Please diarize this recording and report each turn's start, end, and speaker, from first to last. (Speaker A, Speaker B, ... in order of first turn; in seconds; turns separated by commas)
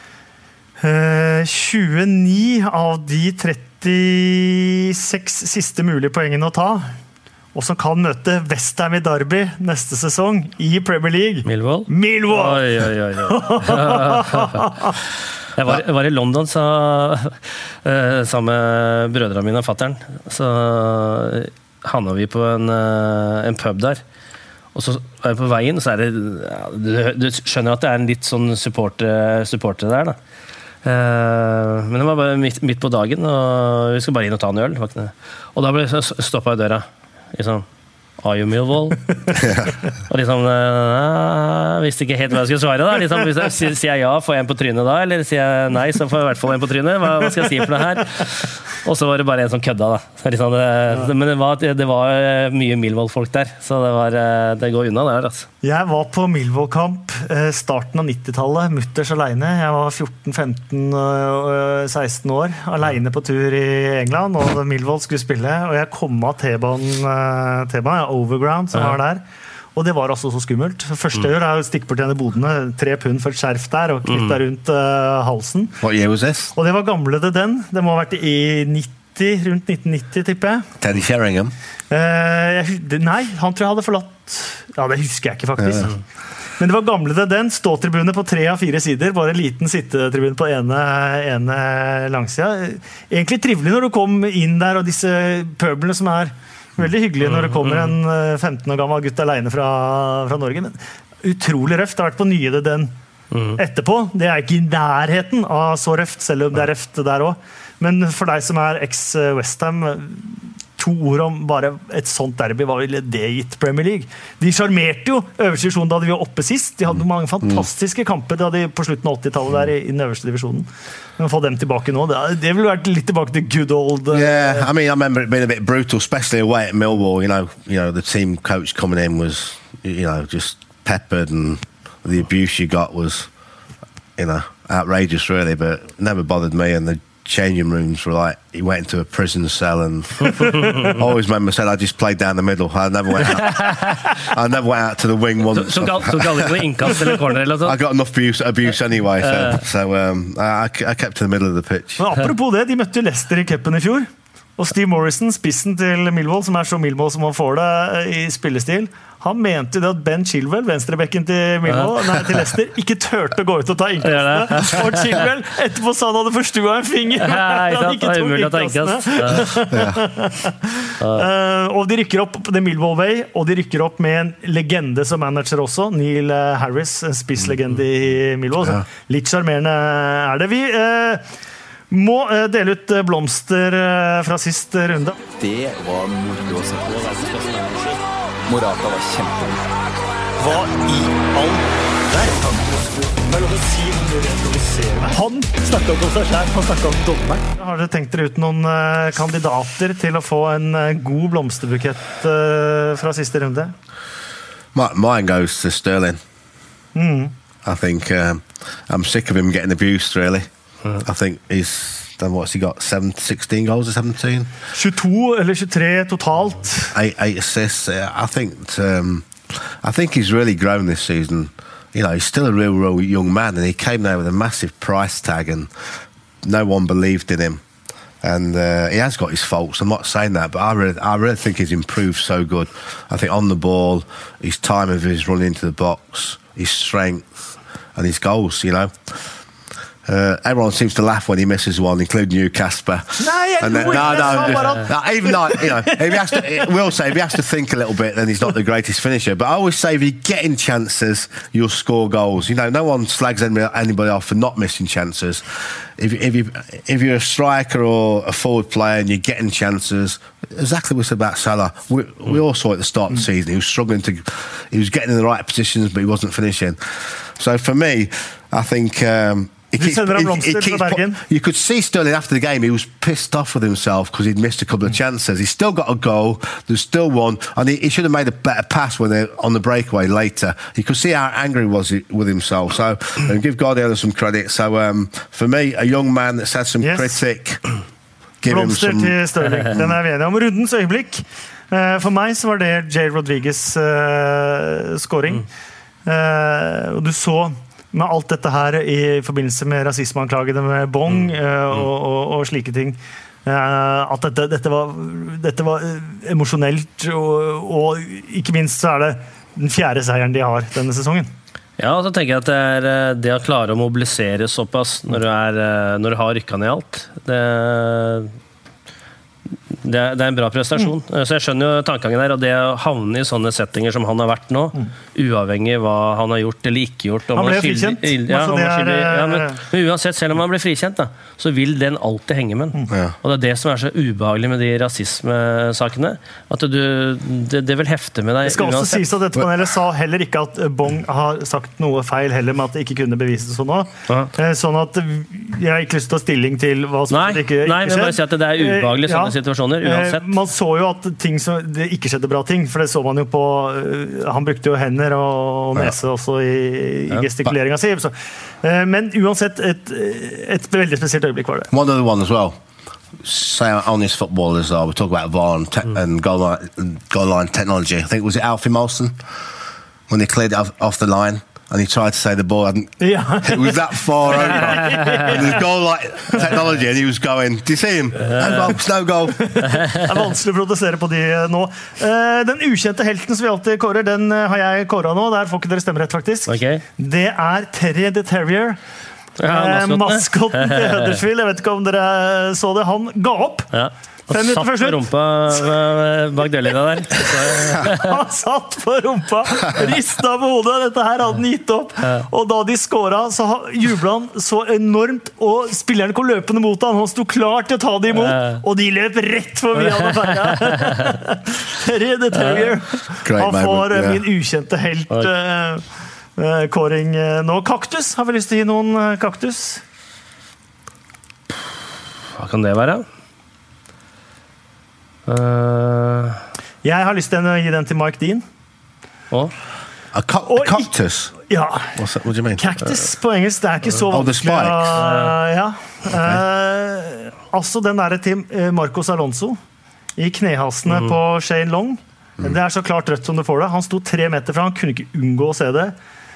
Speaker A: 0.8-6.9, Speaker A: 7.5-12.7, Speaker B: 11.4-14.6, Speaker A: 13.2-14.9, Speaker B: 15.6-24.0, Speaker B: 24.7-30.2, Speaker B: 30.8-37.6, Speaker B: 38.2-39.5, Speaker B: 40.1-55.5, Speaker A: 55.6-69.2, Speaker A: 69.7-75.7, Speaker B: 74.1-74.3, Speaker C: 75.8-76.5, Speaker A: 76.5-80.7, Speaker C: 80.8-81.5, Speaker A: 81.9-86.0, Speaker C: 85.6-85.9, Speaker A: 86.6-102.9, Speaker B: 97.2-97.9, Speaker B: 103.3-103.6, Speaker A: 103.5-124.7, Speaker C: 124.1-133.3, Speaker C: 134.2-146.9, Speaker B: 140.3-140.9, Speaker B: 143.4-144.0, Speaker B: 145.5-147.8, Speaker C: 147.6-152.0, Speaker B: 149.3-149.6, Speaker A: 152.0-181.2, Speaker B: 161.7-162.0, Speaker B: 164.0-165.0, Speaker B: 167.2-169.5, Speaker C: 169.7-170.0, Speaker B: 171.0-171.2, Speaker A: 181.9-185.2, Speaker D: 185.4-187.7, Speaker B: 186.9-188.0, Speaker D: 188.4-189.7, Speaker A: 190.4-203.7, Speaker C: 204.7-206.2, Speaker A: 206.9-207.3, Speaker C: 207.6-214.5, Speaker A: 214.7-216.9, Speaker C: 216.9-225.9, Speaker C: 226.4-227.6, Speaker C: 228.2-237.2, Speaker C: 237.9-239.3, Speaker C: 240.1-287.6, Speaker A: 243.2-246.7, Speaker A: 269.8-271.2, Speaker A: 286.8-287.2, Speaker C: 288.4-289.1, Speaker A: 288.4-295.4, Speaker A: 296.1-311.3, Speaker B: 311.8-318.3, Speaker B: 319.8-339.1, Speaker A: 327.3-329.6, Speaker C: 332.9-333.1, Speaker A: 338.4-361.7, Speaker B: 347.1-350.3, Speaker B: 357.1-357.5, Speaker C: 361.7-362.6, Speaker C: 363.2-369.1, Speaker C: 370.1-379.4, Speaker A: 373.0-375.6, Speaker B: 375.0-375.2, Speaker B: 378.2-378.7, Speaker A: 379.3-388.8, Speaker B: 379.7-380.1, Speaker B: 386.5-386.8, Speaker B: 389.4-391.1, Speaker A: 389.4-393.7, Speaker B: 393.7-398.1, Speaker A: 394.3-395.0, Speaker A: 397.4-415.8, Speaker B: 408.3-408.6, Speaker B: 410.0-411.0, Speaker B: 412.4-412.7, Speaker C: 413.2-414.2, Speaker A: 416.4-419.8, Speaker B: 422.4-423.0, Speaker B: 425.3-426.4, Speaker A: 426.8-428.4, Speaker C: 430.1-431.4, Speaker A: 430.5-430.9, Speaker A: 431.4-432.0, Speaker C: 432.0-432.6, Speaker A: 432.6-439.6, Speaker C: 434.1-435.1, Speaker B: 434.9-435.3, Speaker C: 436.1-436.4, Speaker A: 440.2-445.9